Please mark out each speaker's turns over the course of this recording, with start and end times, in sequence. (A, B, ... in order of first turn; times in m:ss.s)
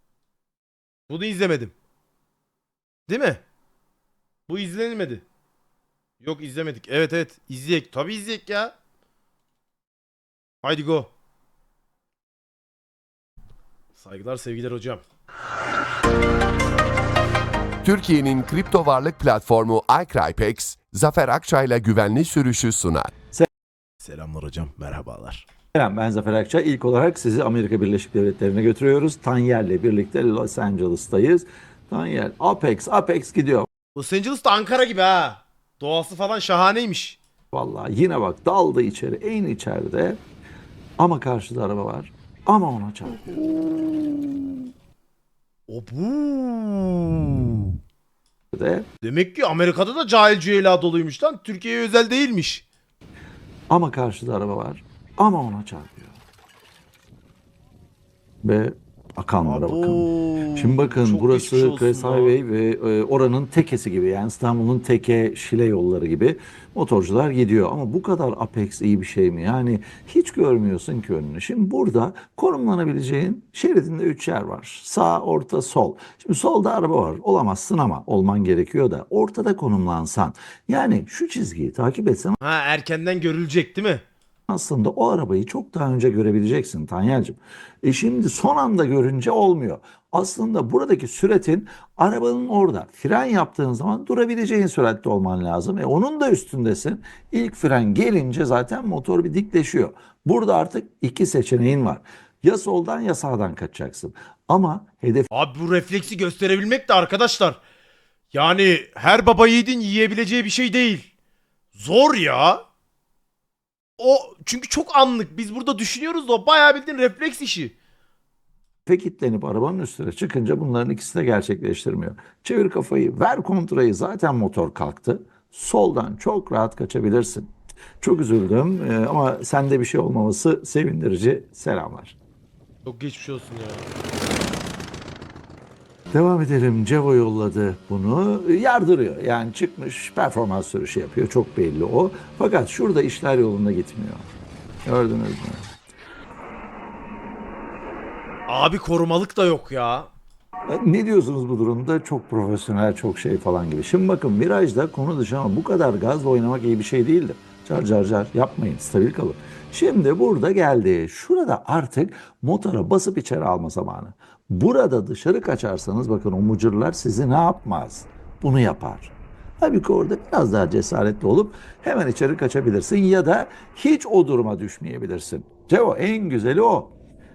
0:01.1-0:01.7 A
0:03.1-0:03.4 A
0:04.5-0:05.2 A
0:06.2-0:08.7 A
0:10.6-0:11.1 A
0:14.0-0:15.0 A
0:17.8-0:23.1 B
0:24.0-0:25.5 A
0:25.7-0:33.7 C
0:34.0-0:37.2 A
0:37.5-0:40.2 C
0:41.0-0:44.7 C
0:45.7-0:47.8 A
0:48.5-0:48.9 C
0:49.0-0:52.6 A
0:53.7-0:56.2 C
0:58.4-1:22.4 C
0:59.5-1:02.3 A
1:22.4-1:24.0 A
1:24.5-1:45.3 C
1:45.3-1:47.6 A
1:48.3-1:51.1 A
1:51.8-1:52.6 A
1:54.0-1:57.7 A
1:58.9-2:12.2 C
2:12.8-2:13.9 A
2:16.1-2:24.3 C
2:24.8-2:25.7 C
2:28.5-2:30.1 A
2:30.7-2:56.9 C